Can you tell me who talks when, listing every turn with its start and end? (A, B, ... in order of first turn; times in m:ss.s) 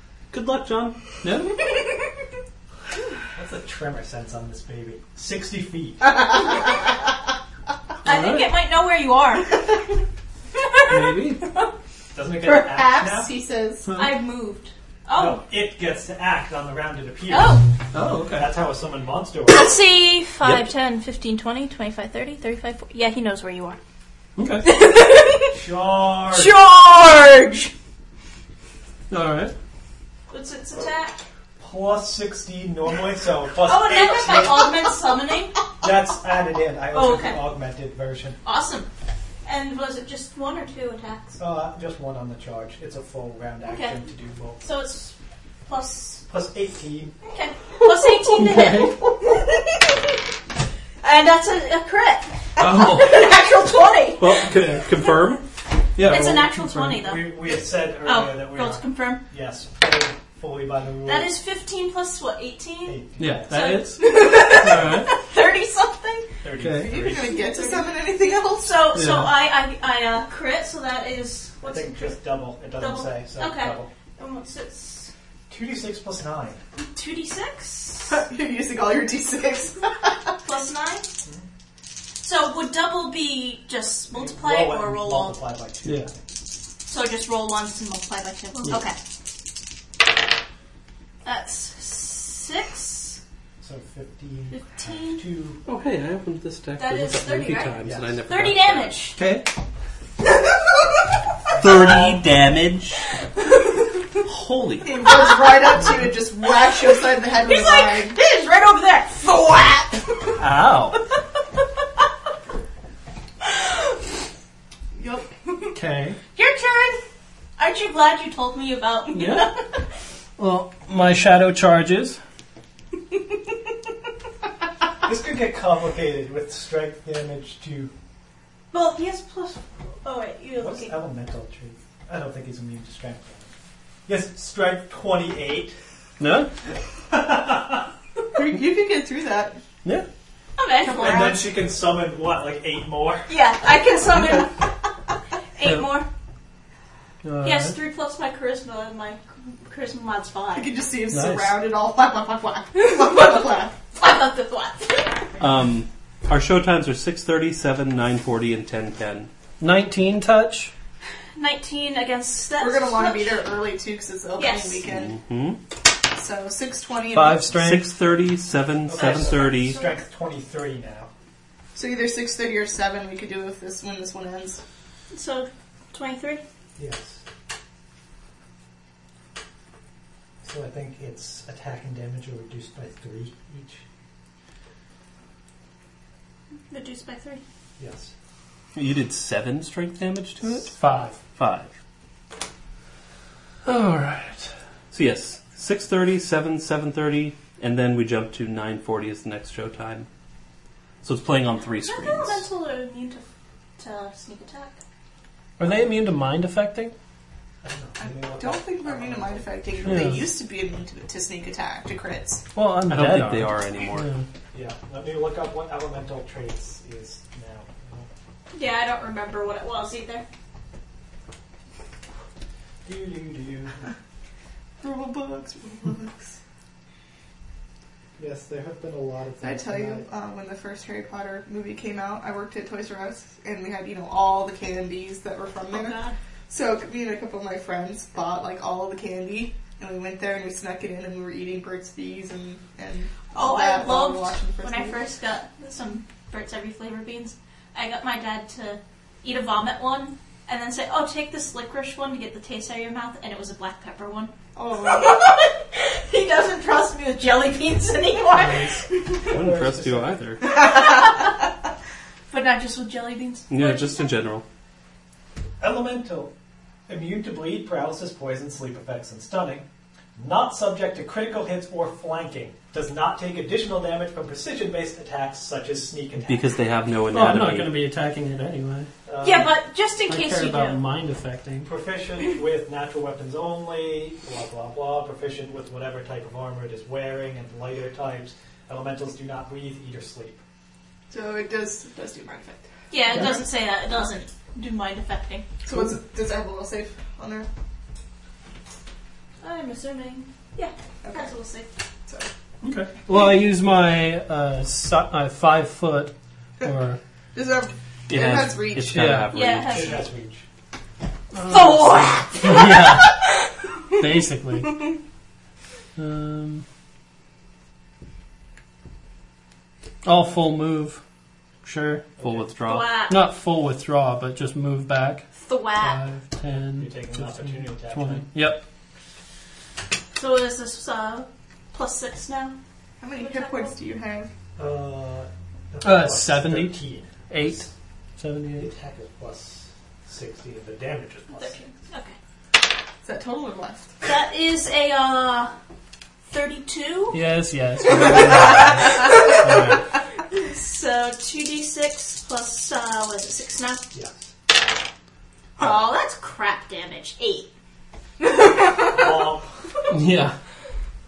0:00.3-0:01.0 A
0:01.2-0:01.6 B
0:01.6-0:01.8 C
0:03.3-0:06.2 D
0:08.0-0:09.8 C
0:08.0-0:08.6 B
0:10.5-0:11.7 C
0:10.9-0:11.4 B
0:12.1-0:13.3 D
0:12.4-0:13.9 E
0:13.8-0:14.2 B
0:13.9-0:15.4 C
0:15.1-0:19.7 D
0:17.3-0:17.7 C
0:17.9-0:18.6 B
0:19.5-0:23.8 C
0:24.4-0:24.8 B
0:24.6-0:25.6 C
0:25.5-0:26.6 D
0:26.3-0:27.7 C
0:29.1-0:29.5 B
0:30.3-0:31.2 C
0:31.6-0:34.9 D
0:33.6-0:35.6 C
0:35.8-0:38.4 D
0:36.9-0:37.4 C
0:38.4-0:38.9 C
0:39.4-0:41.4 C
0:41.4-0:44.6 D
0:43.6-0:44.0 C
0:44.6-0:45.1 C
0:45.6-0:46.2 C
0:46.3-0:47.1 D
0:47.3-0:50.2 C
0:48.2-0:49.0 B
0:51.0-0:55.1 C
0:52.6-0:53.3 B
0:54.2-0:55.4 A
0:54.5-0:54.8 B
0:56.0-0:57.0 B
0:56.0-0:59.2 C
0:56.9-1:01.3 D
1:01.0-1:06.3 C
1:02.8-1:04.0 D
1:03.2-1:05.1 B
1:04.6-1:05.1 D
1:06.4-1:07.3 D
1:06.6-1:07.0 B
1:06.8-1:08.8 E
1:07.2-1:07.9 C
1:08.6-1:12.1 C
1:08.9-1:09.3 B
1:11.6-1:13.9 D
1:12.7-1:15.1 C
1:15.5-1:16.6 D
1:16.8-1:18.1 C
1:18.1-1:20.4 E
1:20.4-1:21.1 C
1:22.2-1:25.4 C
1:24.1-1:26.2 D
1:26.9-1:29.0 C
1:28.6-1:28.8 B
1:31.2-1:33.2 C
1:33.6-1:35.6 D
1:34.5-1:35.2 C
1:35.6-1:39.0 A
1:36.8-1:39.2 C
1:37.8-1:38.1 D
1:39.2-1:39.5 B
1:41.5-1:42.2 D
1:41.6-1:43.0 A
1:44.2-1:45.0 A
1:44.8-1:48.2 E
1:47.1-1:50.0 C
1:49.5-1:49.8 E
1:50.4-1:51.0 B
1:55.0-1:55.3 E
1:55.7-1:56.2 B
1:56.3-1:57.0 C
1:57.6-1:59.8 C
1:59.1-1:59.6 B
2:00.4-2:02.2 B
2:05.0-2:07.9 D
2:08.7-2:11.0 C
2:10.6-2:13.5 D
2:14.0-2:15.8 D
2:16.2-2:16.5 B
2:17.1-2:17.9 D
2:18.3-2:19.6 E
2:20.6-2:21.4 C
2:20.8-2:21.5 E
2:21.0-2:23.3 D
2:23.3-2:24.7 C
2:24.1-2:24.4 B
2:25.6-2:26.1 C
2:25.6-2:26.0 B
2:27.2-2:27.8 B
2:27.4-2:30.7 C
2:30.5-2:33.8 E
2:31.1-2:31.6 B
2:32.8-2:35.3 C
2:35.4-2:39.3 A
2:39.6-2:40.7 B
2:41.4-2:43.5 C
2:42.6-2:45.1 E
2:44.4-2:44.8 C
2:44.8-2:45.6 A
2:46.1-2:47.5 E
2:47.1-2:47.9 B
2:47.5-2:49.8 A
2:48.8-2:51.1 D
2:49.0-2:49.9 C
2:51.7-2:54.6 E
2:55.1-2:56.4 C
2:56.8-2:57.2 D
3:00.4-3:03.8 D
3:06.7-3:07.4 C
3:07.8-3:08.1 D
3:08.7-3:10.7 A
3:10.4-3:11.1 B
3:10.8-3:11.1 D
3:11.4-3:11.7 A
3:13.6-3:14.5 B
3:14.9-3:20.1 A
3:21.0-3:22.4 A
3:21.8-3:23.2 C
3:23.8-3:24.8 C
3:25.6-3:26.9 B
3:27.6-3:30.1 D
3:28.0-3:32.4 E
3:29.8-3:30.3 B
3:32.5-3:34.2 B
3:32.9-3:34.1 A
3:34.5-3:38.1 D
3:38.5-3:40.2 C
3:42.8-3:43.8 D
3:44.8-3:46.4 E
3:48.2-3:50.0 D
3:49.4-3:56.0 E
3:55.7-3:56.2 C
3:56.5-4:05.0 E
4:03.3-4:19.3 C
4:14.5-4:15.2 E
4:18.4-4:18.7 B
4:19.2-4:20.6 A
4:19.3-4:20.2 D
4:20.4-4:21.3 C
4:22.3-4:24.1 C
4:23.5-4:24.4 A
4:25.6-4:26.3 D
4:26.9-4:36.4 D
4:36.2-4:37.8 A
4:37.1-4:38.9 B
4:39.0-4:39.5 D
4:39.2-4:40.8 C
4:40.1-4:41.7 B
4:41.6-4:50.4 D
4:51.1-4:53.4 E
4:52.9-4:55.5 C
4:55.6-4:57.5 E
4:55.7-4:56.0 D
4:59.4-5:01.7 C
5:01.0-5:01.3 E
5:02.6-5:07.0 B
5:07.3-5:09.2 E
5:08.1-5:10.0 A
5:08.9-5:09.4 B
5:09.3-5:10.1 C
5:09.7-5:10.4 D
5:11.3-5:13.2 B
5:11.4-5:13.3 C
5:14.0-5:14.8 B
5:16.0-5:16.6 B
5:20.0-5:21.0 B
5:21.6-5:22.1 B
5:22.2-5:22.5 D
5:22.2-5:22.9 A
5:22.6-5:23.2 C
5:23.1-5:28.6 B
5:25.3-5:26.0 C
5:26.8-5:28.3 D
5:30.1-5:32.5 C
5:33.0-5:34.3 E
5:33.1-5:33.7 C
5:34.6-5:37.7 D
5:35.8-5:38.7 B
5:38.6-5:41.6 D
5:41.4-5:42.1 C
5:43.0-5:43.9 E
5:44.0-5:45.5 C
5:46.3-5:47.2 C
5:47.1-5:49.8 B
5:50.3-5:53.9 C
5:53.9-5:54.2 D
5:55.6-5:57.5 C
5:58.7-5:59.0 E
5:58.9-5:59.5 D
5:59.9-6:00.4 B